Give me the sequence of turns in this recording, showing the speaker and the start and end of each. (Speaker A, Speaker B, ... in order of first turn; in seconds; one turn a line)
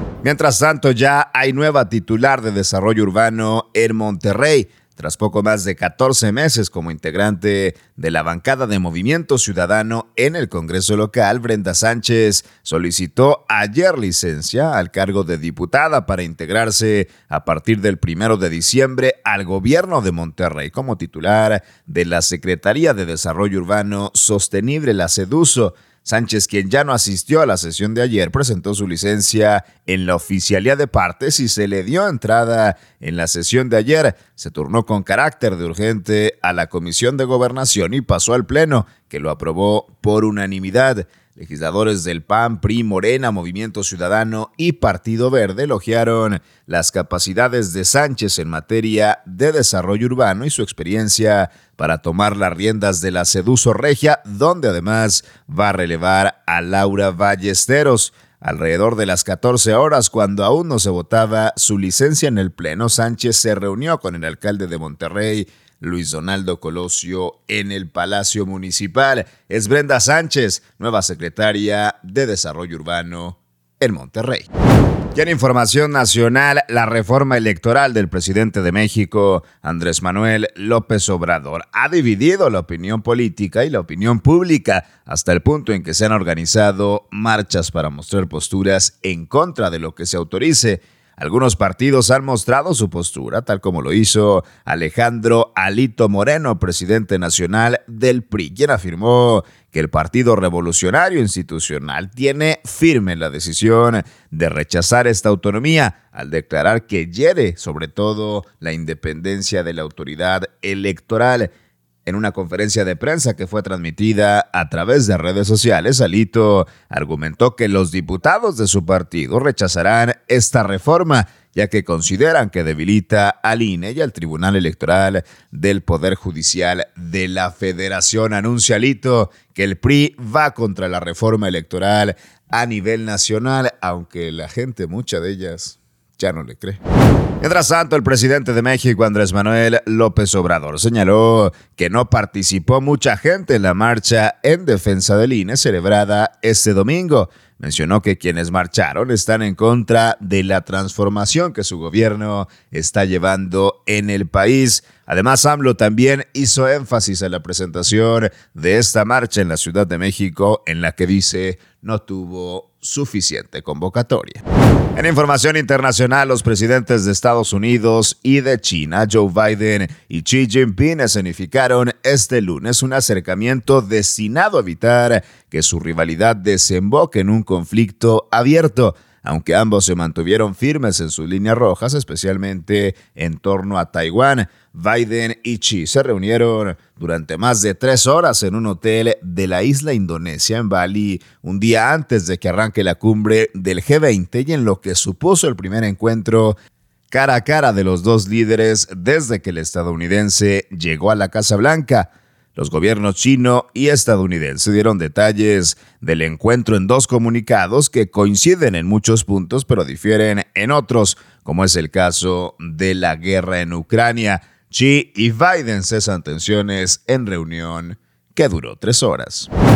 Speaker A: 0.2-74.5
Speaker A: 75.2-111.5
Speaker A: 112.0-136.8
Speaker A: 137.4-164.4
Speaker A: 164.9-196.6
Speaker A: 197.1-219.5